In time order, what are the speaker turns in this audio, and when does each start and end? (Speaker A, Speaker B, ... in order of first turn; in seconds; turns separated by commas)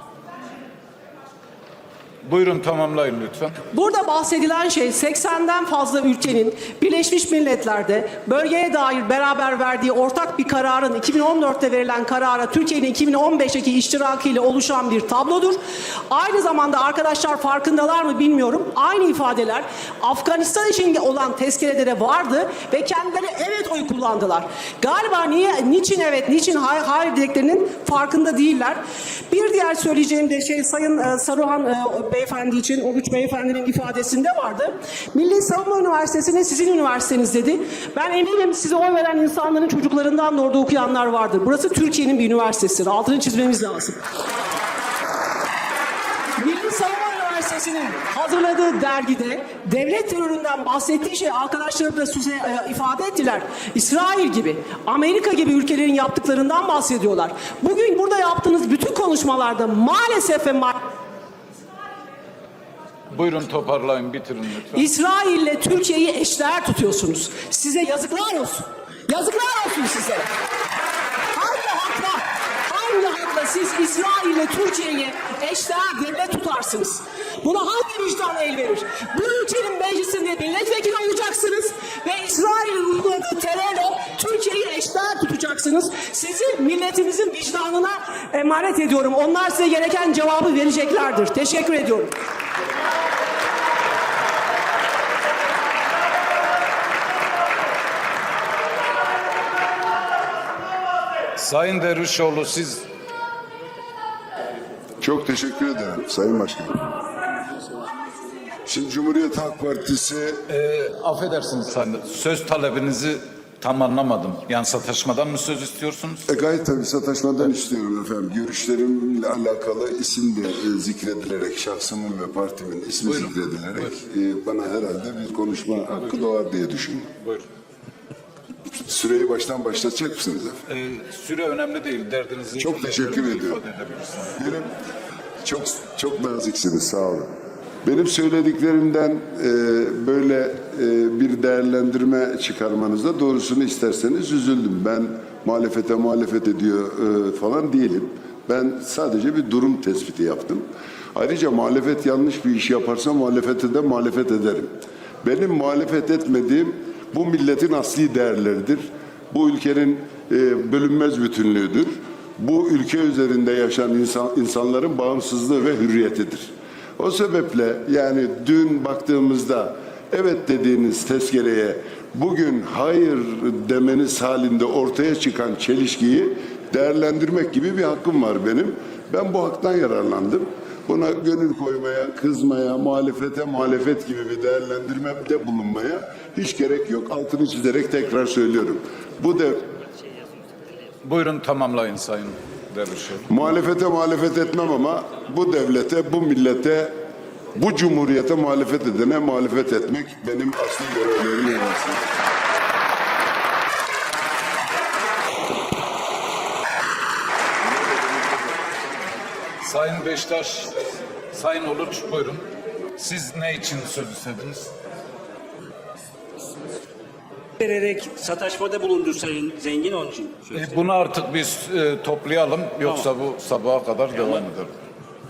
Speaker A: 2.2-3.5, Speaker B: 3.7-44.0, Speaker B: 46.4-60.8, Speaker A: 63.1-64.8, Speaker B: 64.7-70.3, Speaker B: 71.3-92.1, Speaker A: 101.3-102.8, Speaker C: 105.0-106.9, Speaker C: 108.7-110.4, Speaker A: 110.5-116.2, Speaker C: 116.3-127.1, Speaker C: 128.8-130.6, Speaker A: 130.7-134.4, Speaker C: 132.6-133.6, Speaker C: 134.4-134.7, Speaker C: 135.4-137.3, Speaker C: 137.8-189.7, Speaker A: 191.0-193.3, Speaker C: 193.3-197.0, Speaker C: 197.5-202.1, Speaker A: 209.6-212.4, Speaker A: 213.0-214.7, Speaker D: 217.6-220.7, Speaker A: 220.5-224.7, Speaker D: 222.8-223.1